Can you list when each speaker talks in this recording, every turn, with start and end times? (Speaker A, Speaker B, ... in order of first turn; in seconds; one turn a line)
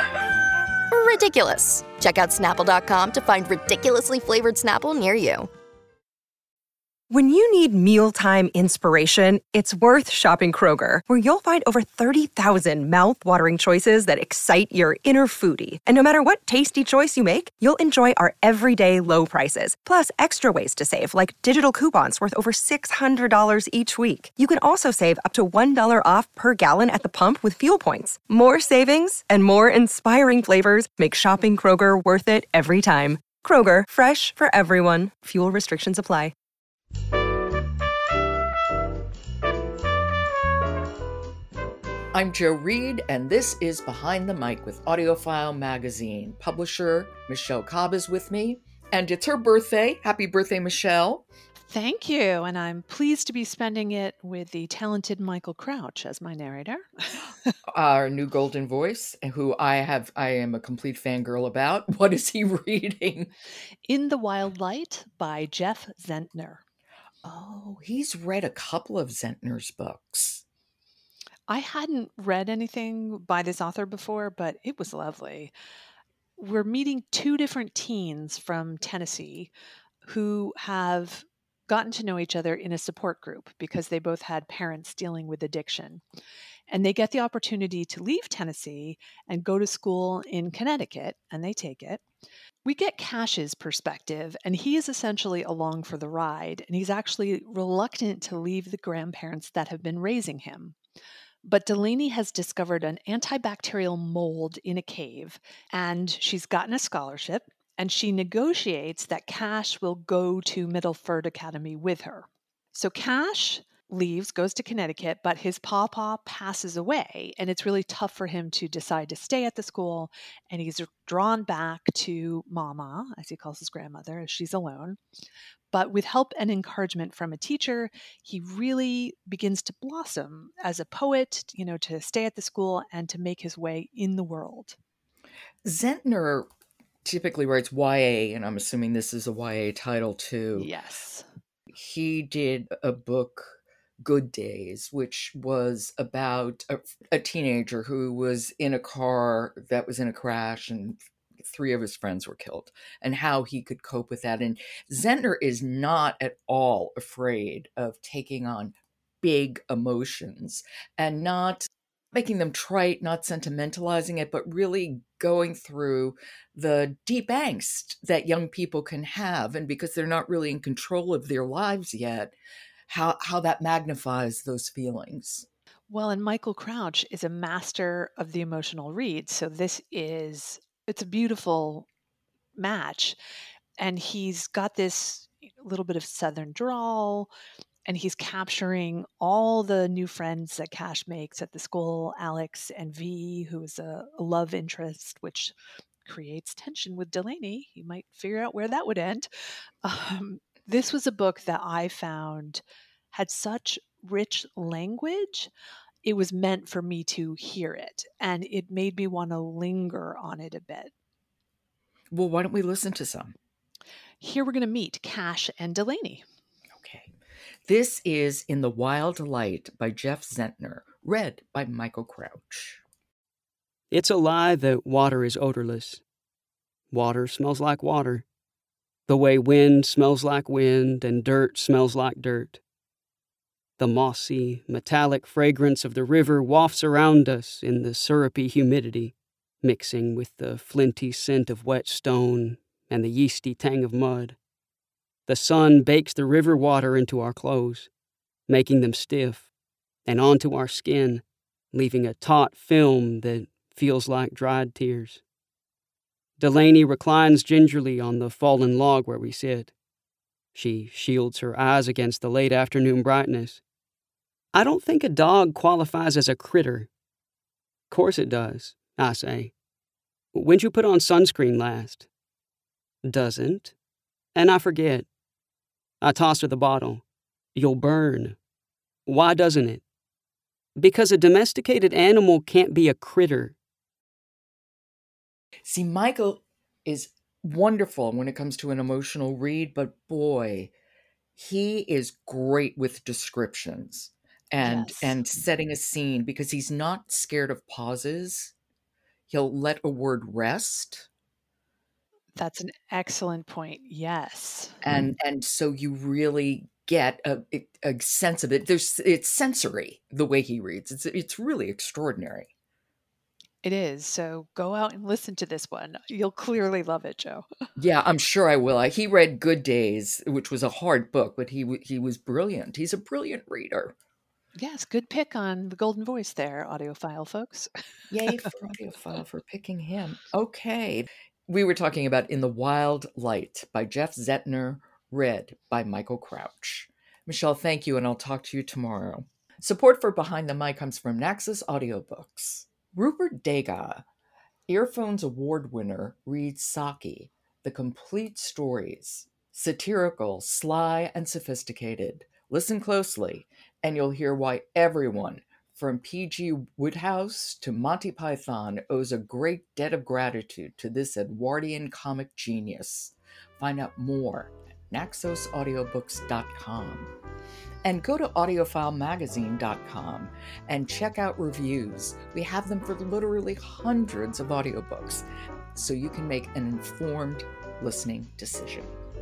Speaker A: 0.9-5.5
Speaker B: 7.1-36.3
Speaker C: 42.1-51.2
Speaker D: 51.7-57.2
Speaker C: 57.7-63.3
Speaker D: 63.9-66.6
Speaker C: 67.2-70.4
Speaker D: 71.5-75.5
Speaker D: 76.4-79.5
Speaker D: 80.0-86.0
Speaker D: 86.7-92.0
Speaker D: 92.6-100.8
Speaker D: 101.4-125.0
Speaker D: 125.7-134.8
Speaker C: 135.6-136.5
Speaker C: 137.0-140.7
Speaker D: 140.5-141.2
Speaker C: 141.7-172.3
Speaker C: 172.9-175.5
Speaker D: 175.9-181.8
Speaker D: 182.6-183.2
Speaker D: 183.8-187.3
Speaker D: 187.8-199.3
Speaker D: 199.8-205.5
Speaker D: 206.0-210.9
Speaker C: 212.1-213.3
Speaker D: 214.2-216.2
Speaker C: 216.8-217.1
Speaker C: 217.7-222.8
Speaker E: 223.9-226.0
Speaker E: 226.9-228.2
Speaker E: 229.1-232.6
Speaker E: 233.8-244.3
Speaker E: 245.3-247.9
Speaker E: 248.5-249.5
Speaker E: 250.1-255.2
Speaker E: 256.4-259.7
Speaker E: 260.5-263.6
Speaker E: 264.5-266.9
Speaker E: 267.9-269.5
Speaker E: 270.3-272.1
Speaker E: 273.0-273.7
Speaker E: 274.3-275.1
Speaker E: 276.0-277.0
Speaker E: 277.5-278.4
Speaker E: 279.1-279.8
Speaker E: 280.8-283.5
Speaker C: 285.6-290.7
Speaker C: 291.4-298.5
Speaker D: 294.6-295.1
Speaker C: 299.3-301.1
Speaker D: 302.4-304.8
Speaker C: 304.8-312.5
Speaker D: 313.6-317.4
Speaker C: 317.8-323.9
Speaker D: 324.6-327.7
Speaker C: 328.1-344.0
Speaker C: 344.7-367.1
Speaker C: 367.8-378.9